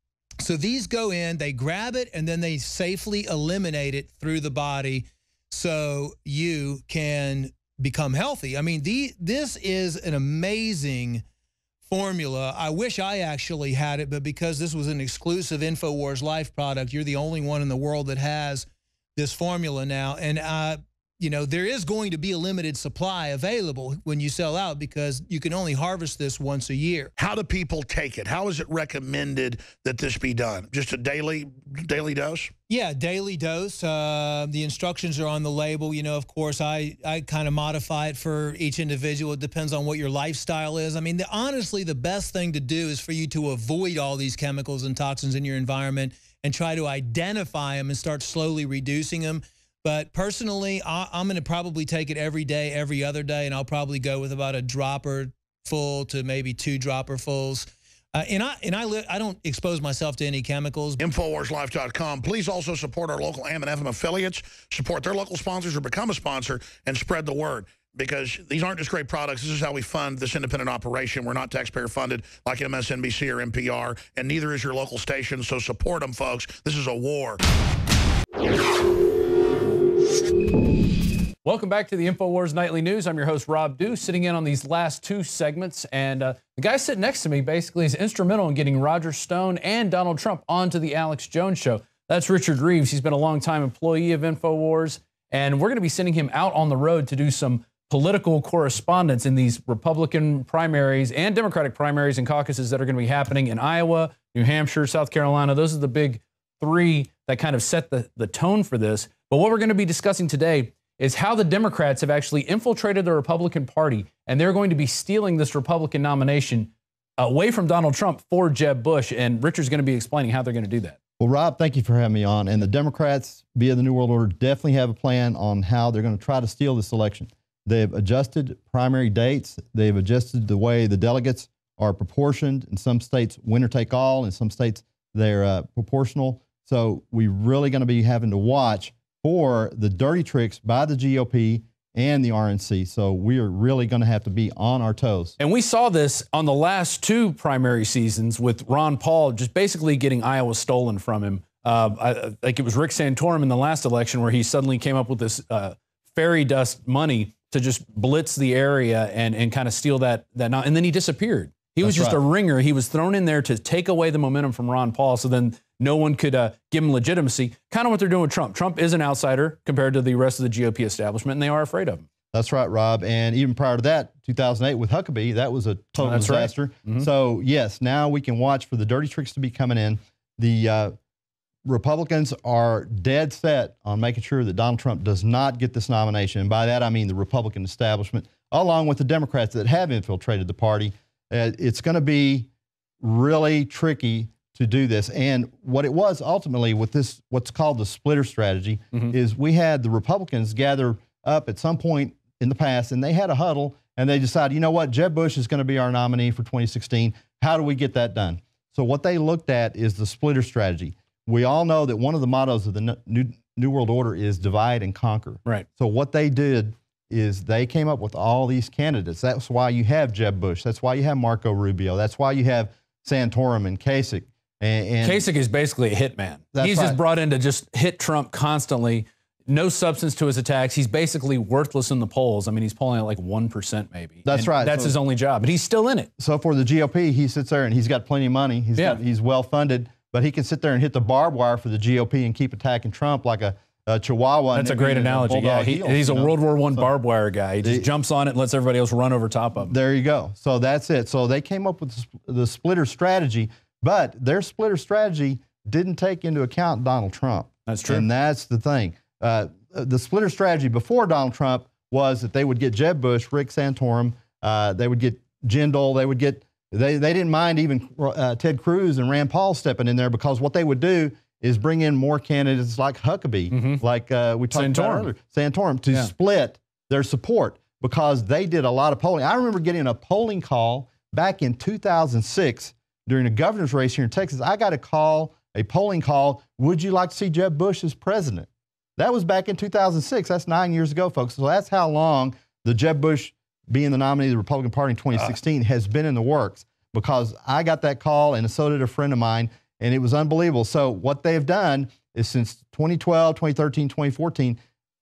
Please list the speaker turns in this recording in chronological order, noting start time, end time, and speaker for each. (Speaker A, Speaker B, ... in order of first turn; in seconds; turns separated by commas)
Speaker A: 0.4-11.2, Speaker A: 11.8-27.1, Speaker B: 27.2-32.5, Speaker A: 32.7-61.0, Speaker B: 61.0-77.4, Speaker C: 81.4-121.0, Speaker D: 121.2-145.3, Speaker C: 145.4-172.0, Speaker D: 161.8-162.2, Speaker D: 172.3-180.9, Speaker C: 176.0-177.1, Speaker D: 181.7-192.5, Speaker D: 193.0-225.2, Speaker C: 225.0-236.1, Speaker D: 226.5-227.0, Speaker D: 234.2-235.0, Speaker D: 236.2-246.9, Speaker C: 244.5-249.7, Speaker D: 247.6-247.9, Speaker D: 249.6-304.6, Speaker C: 257.7-258.1, Speaker C: 273.5-273.8, Speaker C: 274.5-275.1